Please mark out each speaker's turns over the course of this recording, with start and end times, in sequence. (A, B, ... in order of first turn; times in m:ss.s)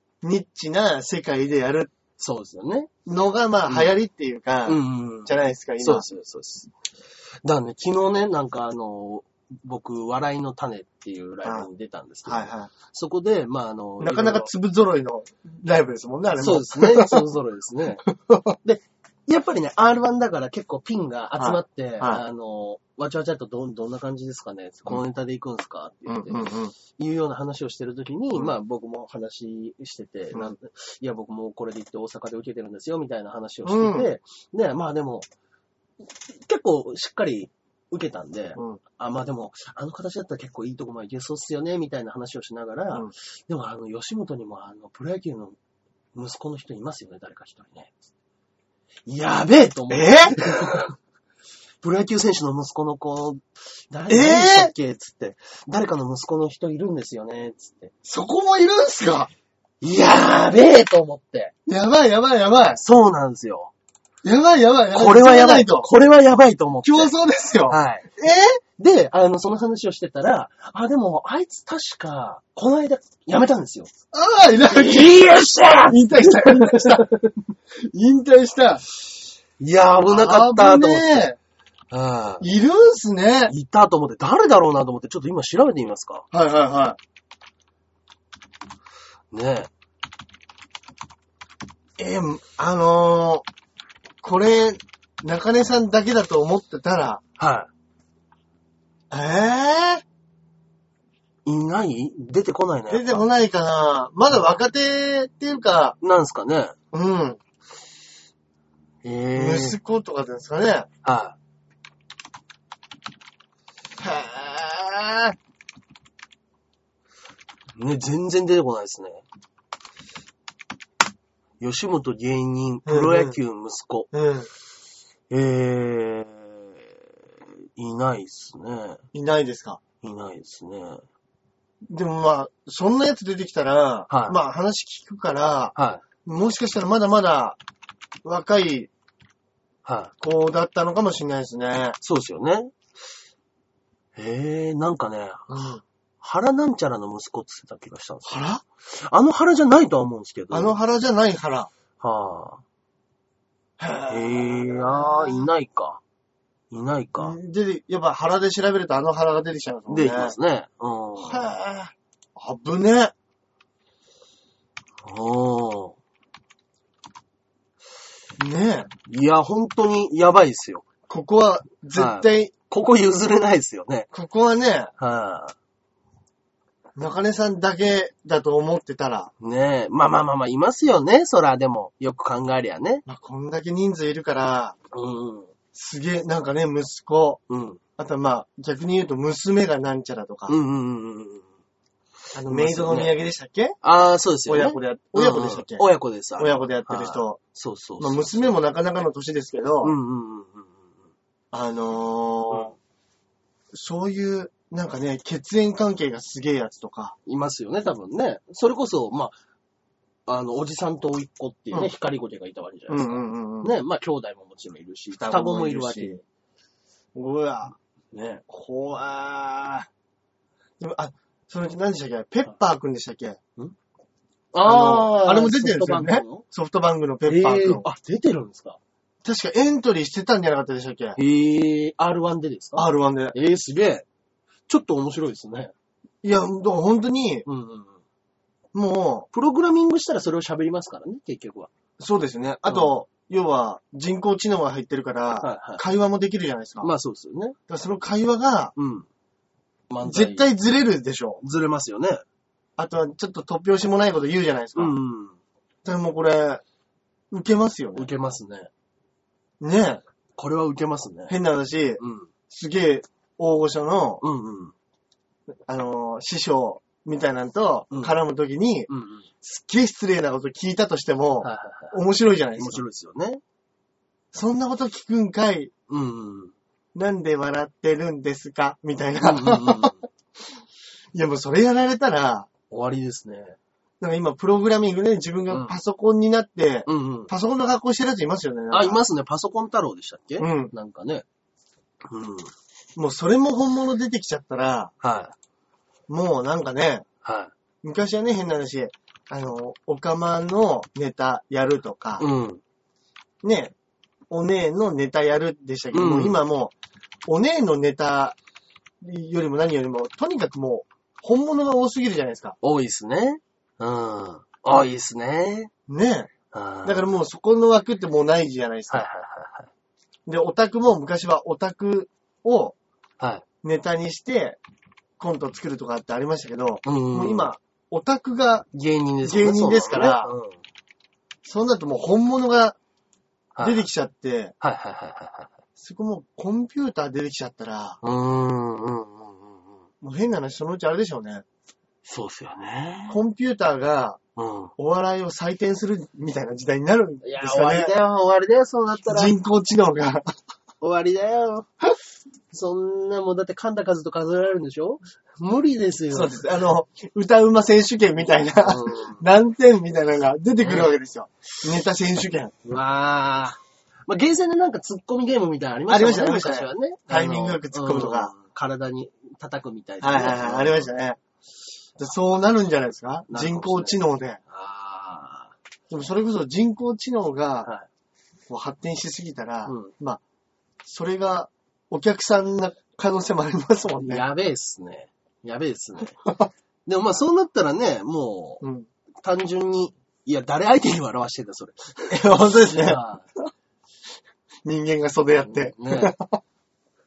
0:00.2-0:01.9 A
0:02.2-0:02.9 B
0:03.0-0:06.0 A
0:03.7-0:04.0 B
0:04.6-0:06.7 B
0:07.4-0:14.5 B
0:11.4-0:11.7 A
0:12.2-0:12.7 A
0:14.0-0:17.3 A
0:16.4-0:18.1 B
0:18.1-0:18.6 A
0:18.6-0:35.3 B
0:21.4-0:22.2 A
0:26.1-0:26.7 A
0:33.6-0:34.1 A
0:36.0-0:45.6 B
0:46.1-0:47.9 B
0:49.0-0:51.0 B
0:49.9-0:50.4 A
0:51.8-0:57.9 B
0:54.1-0:54.7 A
0:58.0-0:59.3 A
0:59.8-1:01.5 B
1:01.6-1:02.8 A
1:02.7-1:03.7 B
1:04.2-1:05.9 A
1:04.9-1:07.1 B
1:06.8-1:08.6 A
1:07.7-1:08.1 B
1:08.8-1:13.9 B
1:14.1-1:15.2 A
1:14.7-1:17.3 B
1:15.9-1:17.1 A
1:17.8-1:18.8 A
1:19.6-1:21.3 B
1:20.0-1:21.4 A
1:21.9-1:22.5 B
1:22.4-1:23.5 A
1:23.5-1:26.2 B
1:26.3-1:27.0 A
1:29.3-1:29.7 B
1:32.0-1:33.4 A
1:34.2-1:37.2 A
1:37.4-1:37.7 B
1:39.1-1:40.0 A
1:41.5-1:43.2 B
1:42.9-1:46.0 A
1:46.0-1:46.8 B
1:46.9-1:47.4 A
1:49.0-1:49.8 B
1:49.4-1:50.9 A
1:51.0-1:51.4 B
1:54.0-1:55.4 A
1:57.8-1:59.2 B
2:01.6-2:04.1 B
2:02.9-2:03.4 A
2:04.1-2:04.5 A
2:05.3-2:09.0 B
2:09.1-2:09.8 A
2:10.0-2:11.0 B
2:11.9-2:15.7 A
2:14.1-2:14.4 B
2:15.8-2:16.0 B
2:16.2-2:17.6 A
2:18.2-2:18.9 A
2:19.8-2:20.1 B
2:20.2-2:22.0 A
2:22.0-2:22.8 B
2:24.2-2:30.8 B
2:25.5-2:25.8 A
2:28.2-2:28.6 A
2:30.5-2:31.7 A
2:32.0-2:32.6 B
2:33.8-2:35.5 A
2:34.1-2:36.0 B
2:36.7-2:37.4 B
2:37.2-2:40.4 A
2:39.9-2:41.5 B
2:41.2-2:43.1 A
2:45.0-2:46.0 B
2:48.4-2:48.9 A
2:49.1-2:50.9 B
2:51.1-2:52.5 A
2:51.9-2:54.1 B
2:54.1-2:54.9 A
2:55.0-2:55.5 B
2:57.0-2:59.3 A
2:59.4-3:03.0 B
3:03.0-3:04.8 A
3:04.9-3:05.5 B
3:05.7-3:07.4 A
3:07.5-3:07.8 B
3:08.0-3:10.6 A
3:10.5-3:11.5 B
3:12.3-3:13.8 A
3:12.4-3:13.2 B
3:13.8-3:18.6 B
3:14.5-3:15.9 A
3:16.4-3:17.4 A
3:18.0-3:20.0 A
3:19.8-3:20.9 B
3:21.5-3:22.8 A
3:23.7-3:27.1 A
3:27.2-3:29.4 B
3:30.3-3:36.2 B
3:32.9-3:33.8 A
3:35.2-3:36.2 A
3:37.1-3:37.8 A
3:38.1-3:38.4 B
3:38.5-3:39.9 A
3:40.8-3:43.4 A
3:44.5-3:46.4 B
3:44.6-3:47.9 A
3:47.2-3:48.8 B
3:49.2-3:51.2 A
3:51.2-3:54.0 B
3:52.8-3:53.4 A
3:54.7-3:55.7 B
3:56.2-3:57.4 A
3:57.5-3:58.0 B
3:58.7-3:59.3 A
3:59.3-4:01.7 B
4:02.0-4:06.9 A
4:02.7-4:02.9 B
4:05.4-4:05.8 B
4:06.8-4:07.6 B
4:07.7-4:08.7 A
4:08.8-4:09.1 B
4:09.9-4:10.5 B
4:10.0-4:11.4 A
4:11.4-4:12.2 B
4:12.8-4:15.0 A
4:14.8-4:15.4 B
4:15.8-4:16.6 A
4:17.3-4:18.1 A
4:18.0-4:18.7 B
4:19.6-4:20.0 A
4:20.4-4:21.4 B
4:21.3-4:24.2 A
4:22.0-4:22.3 B
4:24.2-4:24.8 B
4:25.7-4:28.9 A
4:27.9-4:28.2 B
4:28.9-4:29.3 B
4:29.4-4:32.8 A
4:31.4-4:32.0 B
4:32.6-4:33.4 B
4:34.3-4:35.7 A
4:35.9-4:36.5 B
4:37.0-4:39.9 A
4:39.2-4:40.0 B
4:41.1-4:42.5 A
4:42.7-4:43.6 B
4:44.0-4:49.0 A
4:45.5-4:45.8 B
4:46.9-4:47.3 B
4:48.7-4:51.2 B
4:50.4-4:50.7 A
4:52.0-4:52.5 B
4:53.0-4:54.9 A
4:55.0-4:55.3 B
4:56.1-4:57.0 A
4:57.2-4:57.5 B
4:57.8-5:02.2 A
5:02.2-5:02.6 B
5:03.4-5:03.7 A
5:04.3-5:06.7 A
5:05.9-5:06.4 B
5:07.3-5:08.4 A
5:09.0-5:12.6 A
5:12.6-5:15.7 B
5:15.9-5:16.3 A
5:16.5-5:17.1 B
5:16.8-5:19.0 A
5:18.9-5:19.7 B
5:20.2-5:22.8 A
5:23.6-5:24.6 A
5:25.2-5:28.7 A
5:26.8-5:27.5 B
5:28.7-5:30.6 B
5:29.2-5:30.3 A
5:31.4-5:32.8 A
5:33.5-5:33.9 B
5:33.6-5:34.5 A
5:34.6-5:35.5 B
5:35.8-5:38.0 A
5:38.0-5:39.8 B
5:40.0-5:41.4 A
5:42.0-5:43.2 B
5:43.1-5:44.2 A
5:44.4-5:44.7 B
5:44.8-5:47.9 A
5:47.2-5:49.4 B
5:49.1-5:50.3 A
5:50.8-5:51.7 B
5:52.5-5:56.4 B
5:56.1-6:02.6 A
5:58.6-5:59.2 B
6:00.6-6:00.9 B
6:02.6-6:10.9 B
6:05.9-6:08.3 A
6:10.0-6:11.2 A
6:12.0-6:14.4 A
6:13.3-6:15.5 B
6:15.9-6:17.7 A
6:18.5-6:20.2 A
6:19.6-6:19.9 B
6:20.8-6:24.2 A
6:24.0-6:26.2 B
6:26.9-6:28.6 B
6:28.6-6:28.9 A
6:29.2-6:33.3 B
6:32.1-6:33.0 A
6:34.6-6:36.4 A
6:35.4-6:36.2 B